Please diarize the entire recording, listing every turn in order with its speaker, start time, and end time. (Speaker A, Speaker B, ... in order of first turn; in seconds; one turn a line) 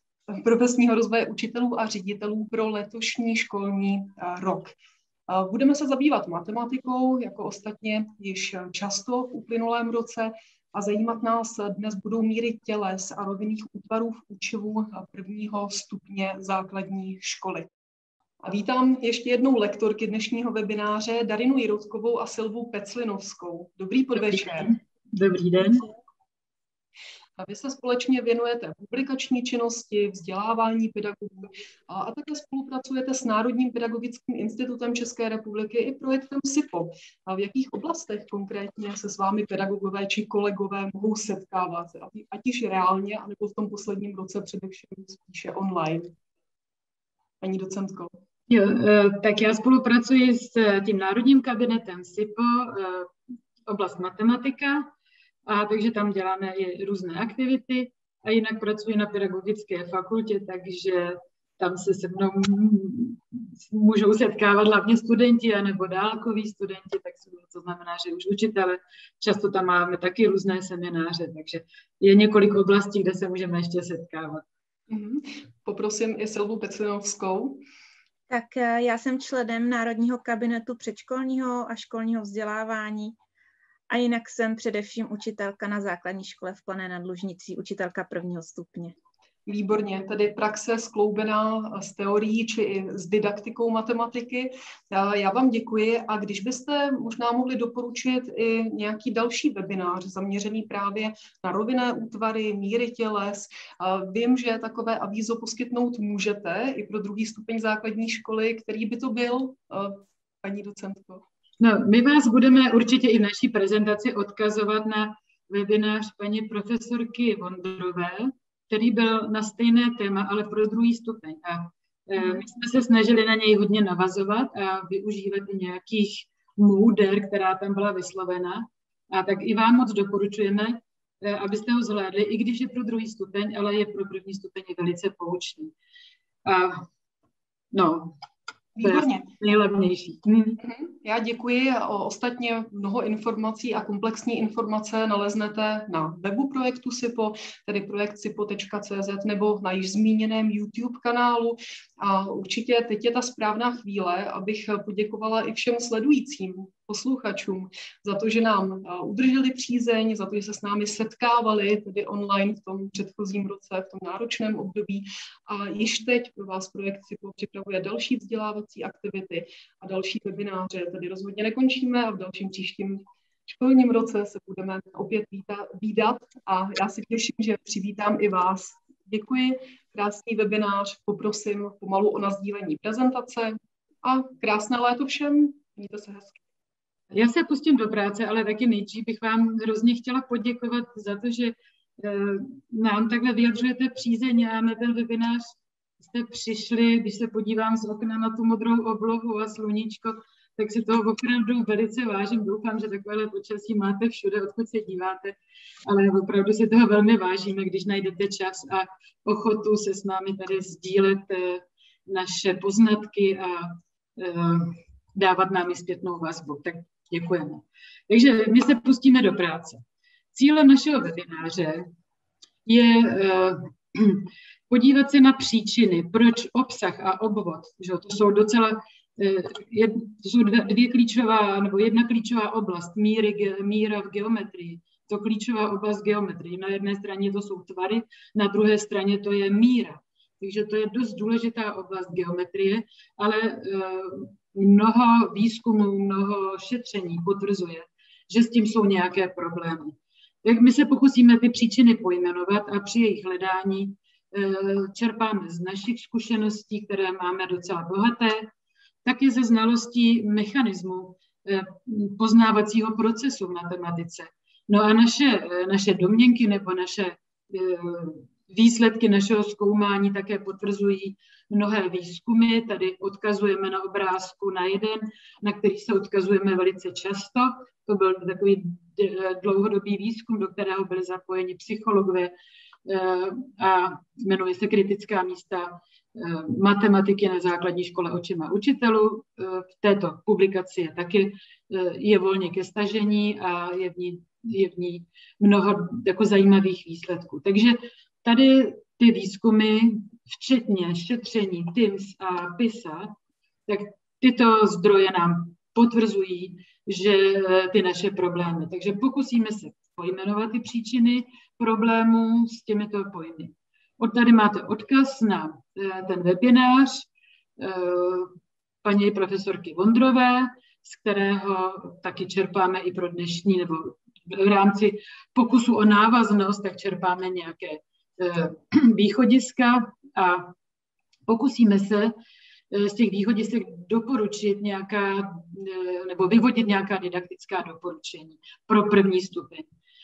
Speaker A: 0.3-4.7
Speaker A: 5.3-17.7
Speaker A: 18.4-24.8
Speaker B: 24.1-25.9
Speaker A: 27.4-46.1
Speaker A: 47.4-48.1
Speaker B: 48.5-53.1
Speaker B: 53.6-54.9
Speaker B: 55.5-74.4
Speaker A: 74.9-77.6
Speaker C: 78.3-83.2
Speaker C: 83.9-88.9
Speaker A: 89.5-111.2
Speaker B: 111.6-135.7
Speaker A: 122.2-122.4
Speaker B: 136.4-136.8
Speaker B: 137.7-138.1
Speaker A: 138.8-139.3
Speaker B: 138.8-140.6
Speaker A: 140.6-186.4
Speaker B: 187.1-195.4
Speaker B: 196.0-219.8
Speaker B: 220.3-221.9
Speaker B: 222.7-258.5
Speaker B: 259.0-282.3
Speaker B: 282.9-303.1
Speaker B: 303.7-317.1
Speaker B: 317.6-330.5
Speaker B: 331.3-332.1
Speaker B: 332.7-339.7